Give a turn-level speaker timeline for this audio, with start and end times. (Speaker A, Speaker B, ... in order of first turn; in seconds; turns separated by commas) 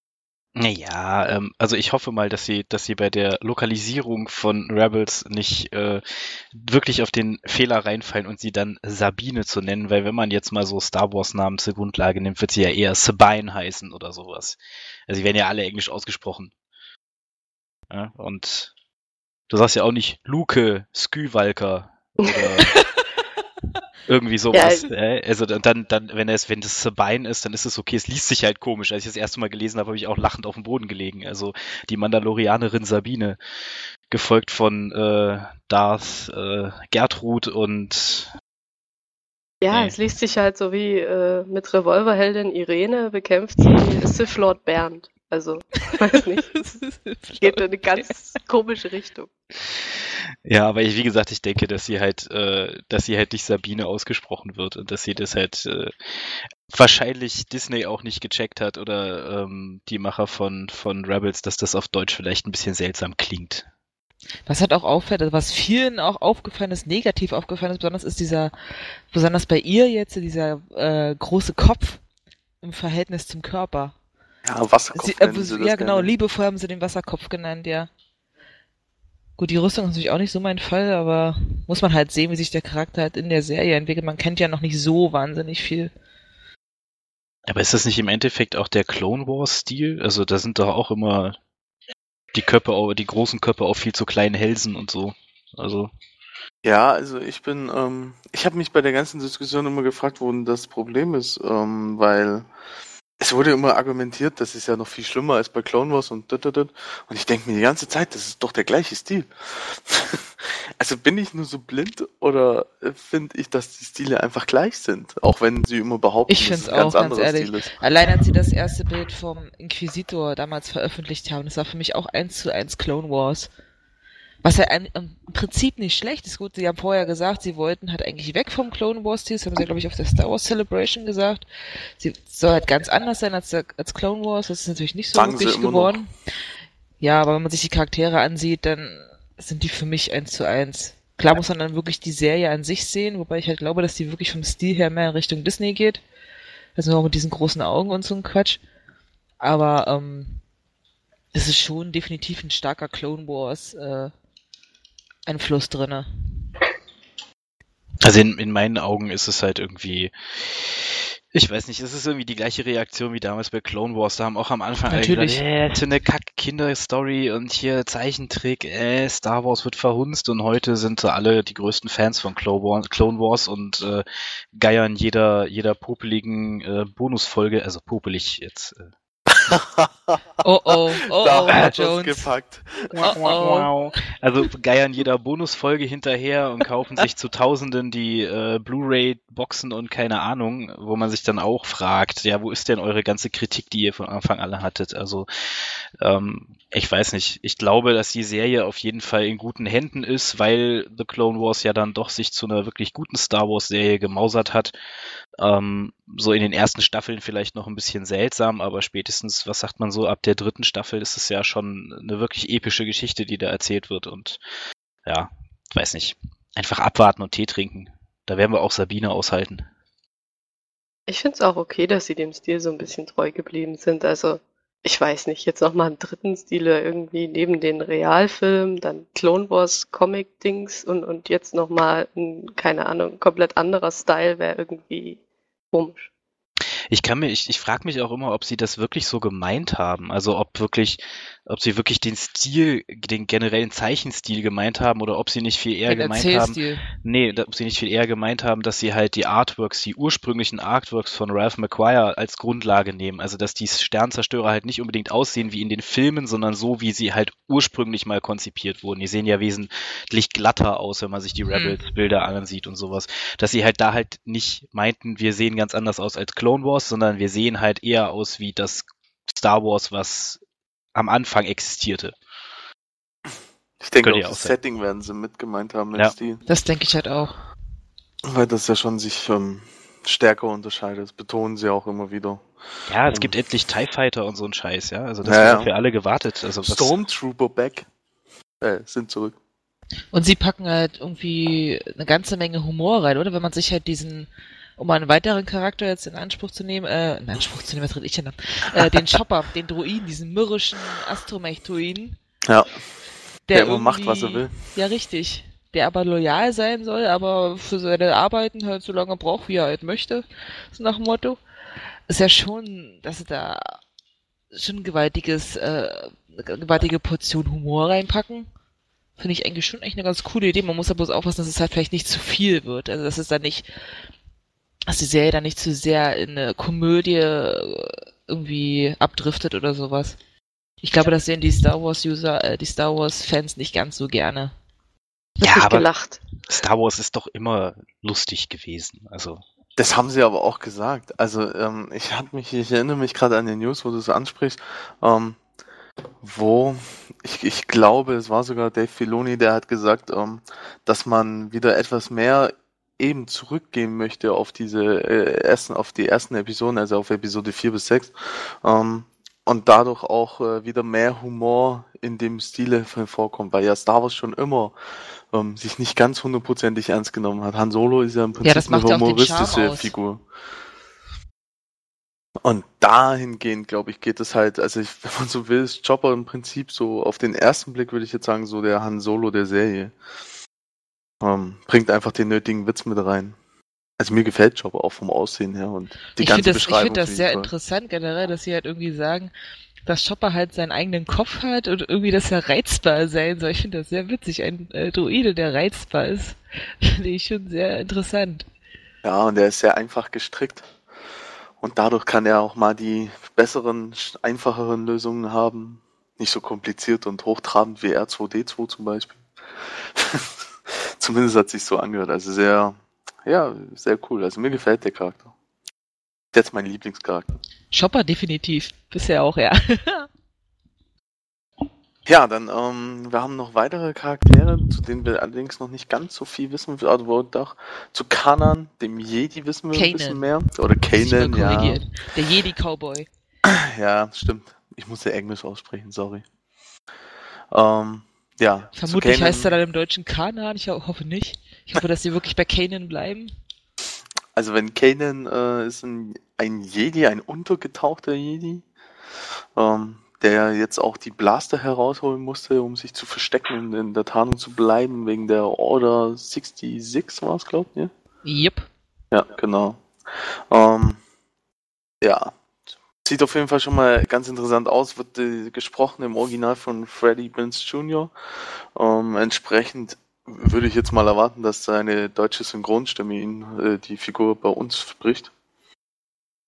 Speaker A: 0.6-16.5, Speaker A: 17.9-18.7, Speaker A: 19.5-22.8, Speaker A: 24.1-33.4, Speaker B: 24.5-24.9, Speaker A: 34.1-38.3, Speaker B: 39.6-46.7, Speaker A: 39.7-40.0, Speaker C: 46.5-48.1, Speaker B: 47.4-49.3, Speaker A: 50.4-63.6, Speaker C: 64.5-68.5, Speaker C: 69.1-72.0, Speaker C: 72.6-73.9, Speaker D: 74.4-76.1, Speaker C: 74.9-77.9, Speaker C: 79.4-85.9, Speaker A: 87.5-91.4, Speaker A: 92.3-95.9, Speaker D: 96.6-102.5, Speaker D: 103.2-117.7, Speaker C: 116.3-123.5, Speaker C: 124.4-131.4, Speaker C: 132.0-136.1, Speaker D: 135.1-136.0, Speaker C: 137.0-146.0, Speaker C: 146.8-148.6, Speaker C: 149.4-150.4, Speaker C: 151.3-154.1, Speaker C: 155.2-156.1, Speaker A: 158.0-178.9, Speaker C: 164.9-165.4, Speaker D: 179.3-182.9, Speaker C: 180.4-182.2, Speaker A: 182.9-204.7, Speaker C: 182.9-183.7, Speaker A: 205.4-214.4, Speaker A: 215.1-219.6, Speaker B: 221.1-235.2, Speaker B: 235.7-236.1, Speaker A: 236.9-270.4, Speaker C: 245.9-246.8, Speaker C: 261.5-261.8, Speaker A: 270.9-272.1, Speaker D: 273.8-276.4, Speaker A: 274.0-274.5, Speaker C: 276.5-277.4, Speaker D: 278.2-282.4, Speaker A: 282.9-286.9, Speaker D: 285.2-285.7, Speaker D: 286.6-287.9, Speaker D: 288.6-289.3, Speaker C: 290.1-302.1, Speaker C: 303.5-311.4, Speaker D: 303.5-304.6, Speaker C: 312.1-313.8, Speaker C: 314.5-318.5, Speaker C: 319.2-323.7, Speaker C: 324.9-330.2, Speaker C: 330.8-334.5, Speaker B: 335.4-336.2, Speaker A: 335.4-335.9, Speaker A: 336.4-339.4, Speaker D: 339.8-345.4, Speaker D: 346.2-364.7, Speaker D: 365.3-370.2, Speaker C: 368.4-369.9, Speaker D: 372.4-379.9, Speaker D: 381.2-383.4, Speaker D: 384.0-387.5, Speaker C: 386.2-389.3, Speaker C: 389.9-398.5, Speaker D: 399.0-400.7, Speaker D: 401.6-415.3, Speaker D: 416.3-417.4, Speaker C: 417.7-420.1, Speaker D: 422.1-431.9, Speaker C: 429.7-430.2, Speaker C: 430.9-433.1, Speaker D: 433.4-436.2, Speaker D: 437.5-439.6, Speaker C: 438.8-443.3, Speaker D: 444.3-448.6, Speaker D: 449.5-457.9, Speaker C: 458.2-458.7, Speaker D: 459.1-459.8, Speaker D: 460.5-461.0, Speaker D: 462.0-462.3, Speaker D: 463.0-468.1, Speaker D: 468.7-475.3